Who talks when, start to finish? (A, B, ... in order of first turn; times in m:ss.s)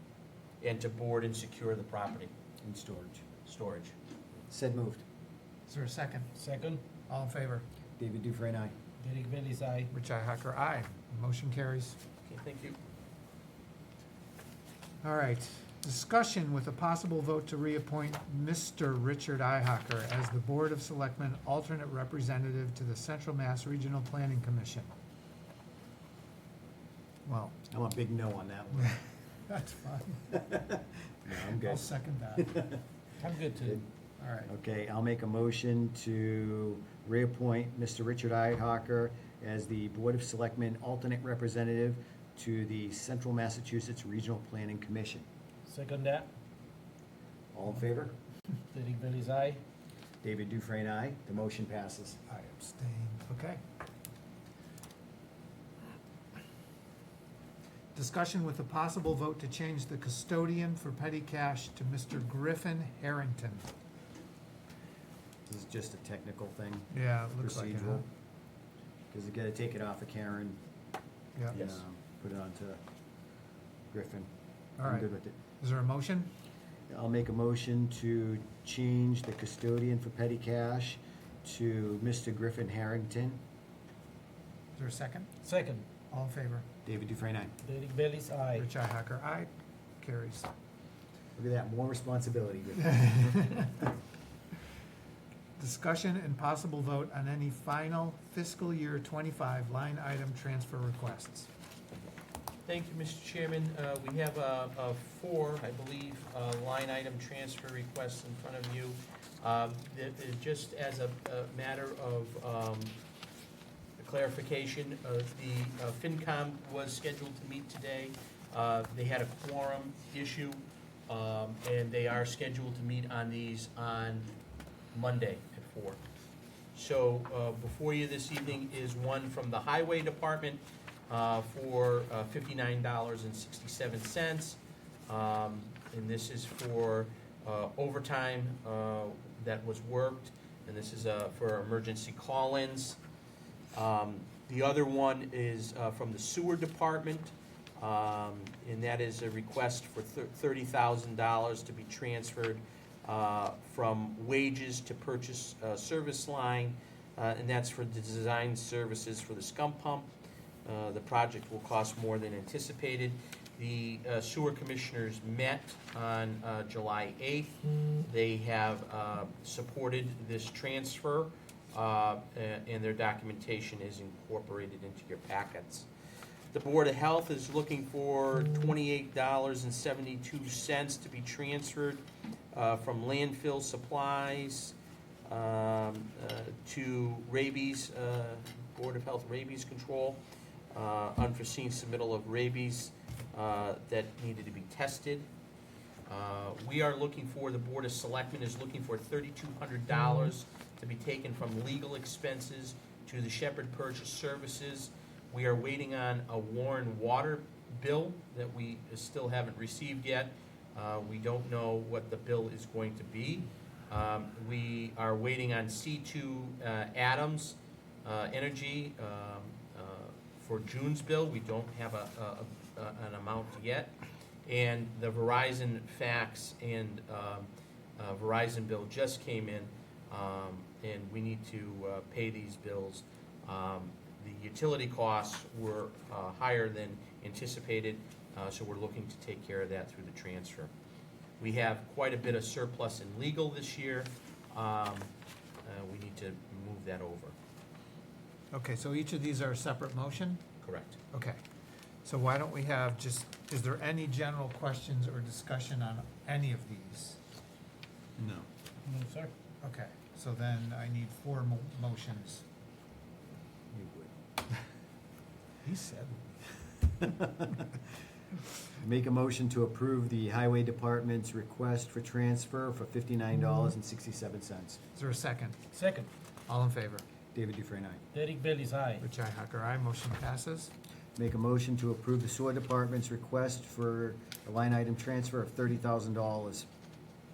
0:00.6-0:02.3 A
0:02.6-0:03.2 B
0:03.4-0:03.9 A
0:04.5-0:05.0 B
0:05.7-0:06.3 C
0:06.4-0:06.8 D
0:07.1-0:07.6 C
0:08.0-0:08.8 B
0:09.0-0:09.9 D
0:09.9-0:12.0 C
0:12.2-0:12.8 A
0:15.0-0:24.9 C
0:27.2-0:27.6 C
0:27.7-0:29.0 B
0:28.8-0:30.4 C
0:30.3-0:32.8 B
0:31.6-0:32.6 C
0:33.2-0:33.8 D
0:34.2-0:34.5 C
0:34.4-0:45.2 B
0:45.6-0:46.3 D
0:47.5-0:48.2 B
0:48.7-0:49.6 D
0:50.2-0:52.2 B
0:52.3-0:53.6 C
0:57.9-1:03.7 C
1:05.4-1:08.1 B
1:06.9-1:08.0 C
1:09.1-1:10.6 B
1:11.5-1:12.8 B
1:13.9-1:14.3 B
1:14.8-1:15.0 C
1:14.8-1:15.4 B
1:15.6-1:16.3 C
1:16.9-1:23.4 B
1:24.8-1:25.3 C
1:25.4-1:25.8 D
1:26.1-1:26.7 C
1:26.8-1:27.5 B
1:27.6-1:28.6 D
1:28.5-1:29.5 C
1:30.0-1:30.5 C
1:31.4-1:33.5 B
1:32.8-1:33.8 C
1:35.6-1:41.5 C
1:42.6-1:53.0 A
1:54.0-2:04.3 A
2:04.9-2:06.0 A
2:06.7-2:23.0 A
2:23.7-2:40.1 A
2:40.6-2:55.9 A
2:56.5-3:04.7 A
3:05.3-3:10.2 A
3:10.7-3:15.3 A
3:16.1-4:00.7 A
4:01.4-4:05.1 A
4:05.6-4:07.4 A
4:08.5-4:10.4 C
4:10.6-4:11.0 A
4:11.1-4:11.4 C
4:12.0-4:17.2 C
4:18.2-4:18.5 B
4:18.8-4:19.3 D
4:19.6-4:22.4 C
4:23.7-4:24.1 B
4:25.6-4:26.3 C
4:27.0-4:27.6 B
4:28.8-4:34.8 B
4:35.0-4:35.6 C
4:35.7-4:36.1 D
4:36.5-4:37.0 C
4:37.3-4:38.0 B
4:38.1-4:39.0 D
4:39.0-4:40.7 C
4:41.1-4:46.7 B